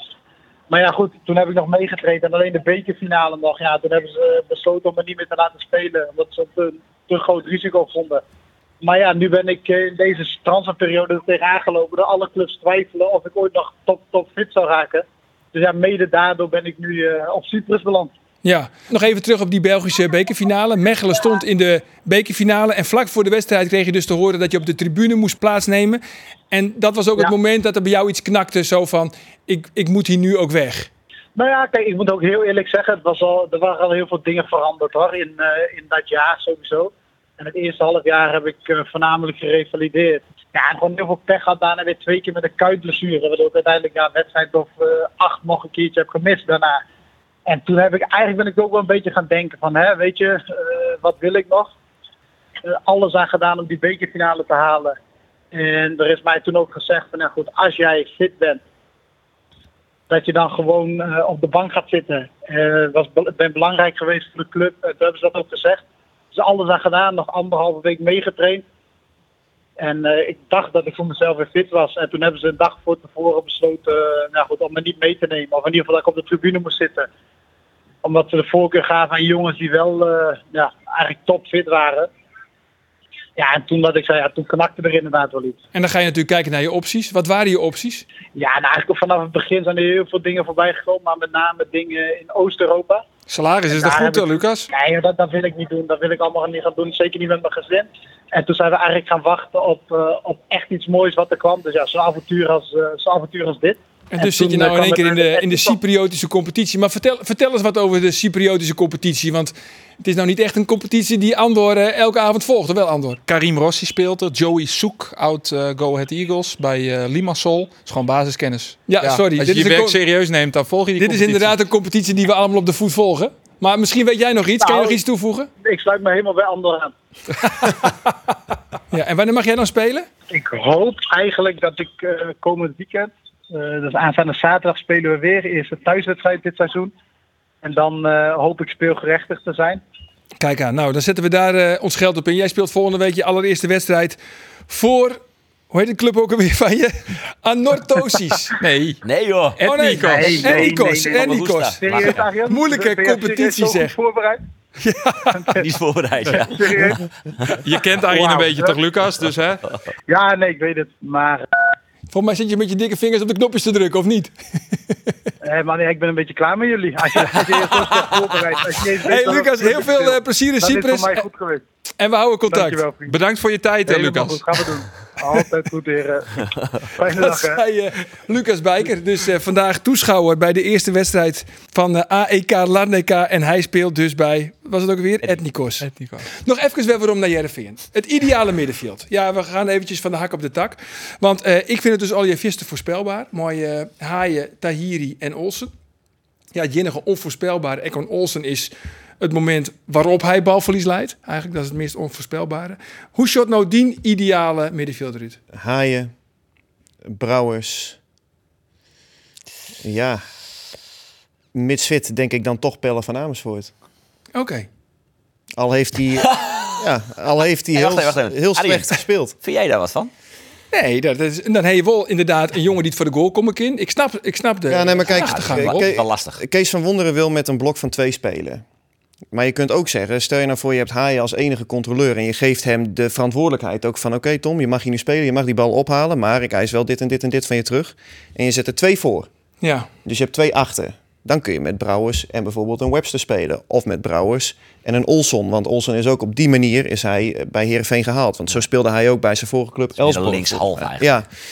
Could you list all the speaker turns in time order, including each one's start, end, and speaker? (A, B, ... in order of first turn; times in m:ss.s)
0:00.7-0:08.2 A
0:08.8-0:18.1 A
0:18.4-0:30.9 B
0:31.4-0:46.8 A
0:47.5-0:51.7 A
0:52.6-0:55.0 A
0:55.5-0:58.6 A
1:00.1-1:05.8 A
1:06.3-1:08.6 A
1:09.8-1:17.1 A
1:18.0-1:22.1 A
1:23.4-1:25.6 A
1:25.7-1:28.0 B
1:28.4-1:33.0 A
1:33.3-1:34.7 C
1:33.7-1:45.8 A
1:44.1-1:53.2 B
1:53.3-2:01.6 C
1:58.9-2:00.0 B
2:01.0-2:05.5 B
2:04.6-2:05.0 A
2:05.6-2:06.9 A
2:07.6-2:08.2 B
2:08.9-2:10.1 B
2:10.3-2:16.9 A
2:17.6-2:19.8 A
2:20.4-2:24.2 B
2:24.7-2:25.2 B
2:25.7-2:28.6 B
2:28.6-2:29.0 C
2:29.0-2:29.6 D
2:29.6-2:30.7 C
2:29.6-2:33.9 B
2:30.1-2:34.4 A
2:30.2-2:32.3 D
2:34.8-2:35.6 B
2:35.6-2:37.0 D
2:36.4-2:38.8 A
2:37.5-2:39.6 C
2:40.1-2:41.4 A
2:42.1-2:44.3 B
2:45.4-2:51.6 A
2:49.0-2:51.2 B
2:52.0-2:52.8 B
2:52.5-2:53.2 A
2:53.1-2:54.5 C
2:53.9-2:57.6 A
2:57.1-3:05.9 B
3:05.8-3:06.3 C
3:06.4-3:15.7 B
3:16.5-3:25.4 B
3:25.5-3:26.1 E
3:27.0-3:28.0 E
3:29.8-3:30.2 E
3:31.5-3:33.7 E
3:34.4-3:34.7 B
3:35.6-3:39.4 E
3:36.2-3:36.8 D
3:37.8-3:40.1 D
3:40.7-3:45.9 B
3:44.7-3:48.6 E
3:45.1-3:46.4 D
3:49.3-3:59.3 E
3:59.6-3:59.9 B
4:00.0-4:11.3 E
4:10.0-4:11.1 D